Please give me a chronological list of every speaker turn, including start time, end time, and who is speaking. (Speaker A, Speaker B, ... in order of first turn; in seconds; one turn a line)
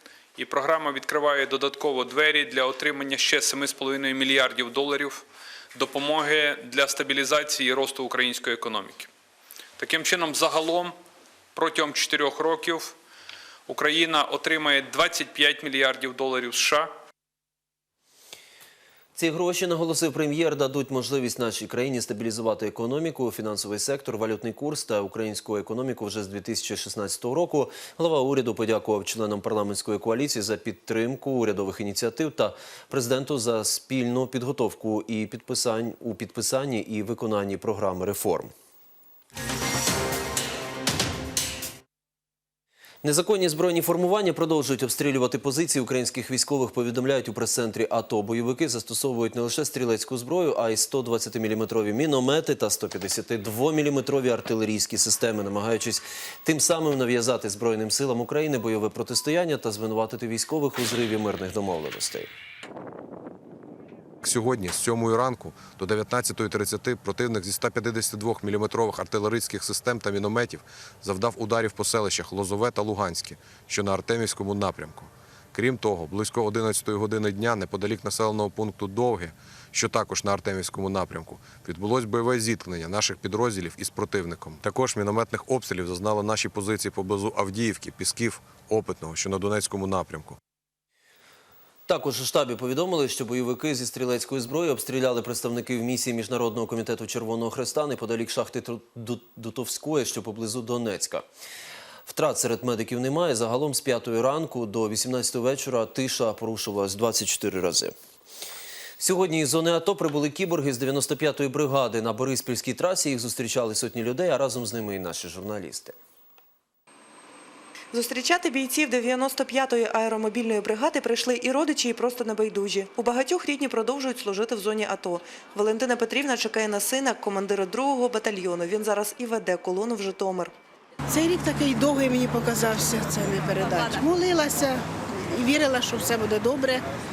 Speaker A: 0.3-5.2
Speaker A: 5.7-9.1
Speaker A: 9.8-10.9
Speaker A: 11.5-12.9
Speaker A: 13.7-16.9
Speaker B: 19.1-38.5
Speaker B: 43.0-62.3
Speaker C: 64.2-90.4
Speaker B: 91.9-101.2
Speaker B: 102.1-107.9
Speaker B: 109.0-116.0
Speaker D: 117.9-130.5
Speaker E: 131.1-136.8